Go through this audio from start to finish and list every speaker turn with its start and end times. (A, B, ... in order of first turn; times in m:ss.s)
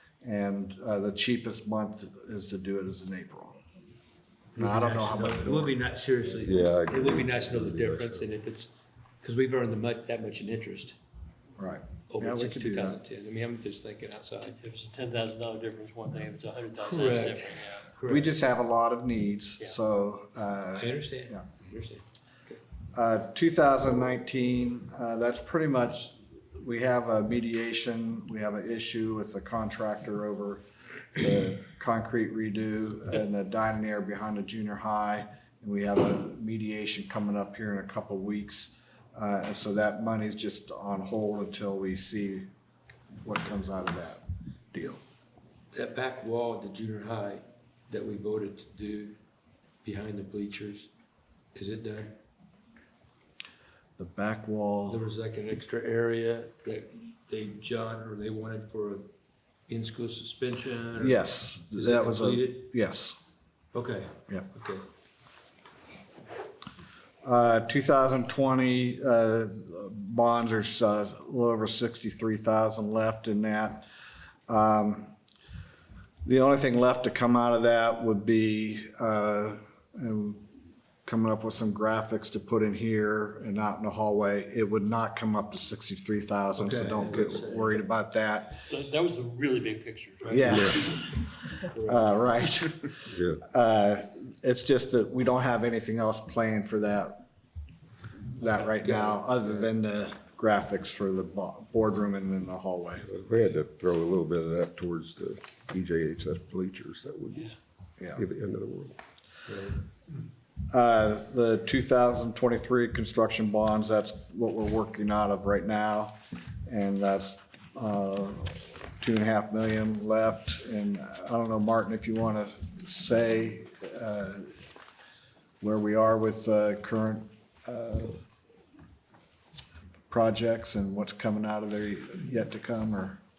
0:00.2-0:03.6 A
0:04.6-0:11.0 B
0:04.6-0:05.8 A
0:06.4-0:08.3 C
0:11.6-0:13.0 A
0:12.1-0:14.6 B
0:14.5-0:17.9 D
0:16.8-0:18.3 B
0:18.1-0:21.4 A
0:20.8-0:22.6 B
0:22.9-0:30.6 A
0:31.2-0:42.5 A
0:43.2-0:45.0 A
0:45.7-0:49.2 B
0:49.8-0:50.9 B
0:51.5-0:52.2 B
0:54.0-0:55.0 A
0:54.9-0:59.1 B
0:59.7-1:01.2 B
1:01.0-1:03.2 A
1:01.7-1:02.7 B
1:03.7-1:04.8 B
1:07.2-1:13.9 A
1:14.5-1:15.1 A
1:16.2-1:20.4 A
1:21.1-1:28.6 A
1:26.6-1:27.8 B
1:28.7-1:30.8 D
1:30.3-1:32.9 A
1:30.5-1:30.8 B
1:31.7-1:32.0 B
1:33.1-1:33.4 C
1:33.4-1:37.3 A
1:38.3-1:43.1 A
1:38.4-1:39.7 B
1:43.0-1:47.5 C
1:48.0-1:48.2 A
1:48.1-1:49.0 C
1:49.5-1:49.8 B
1:50.7-2:04.5 A
2:05.6-2:08.2 A
2:10.1-2:13.2 A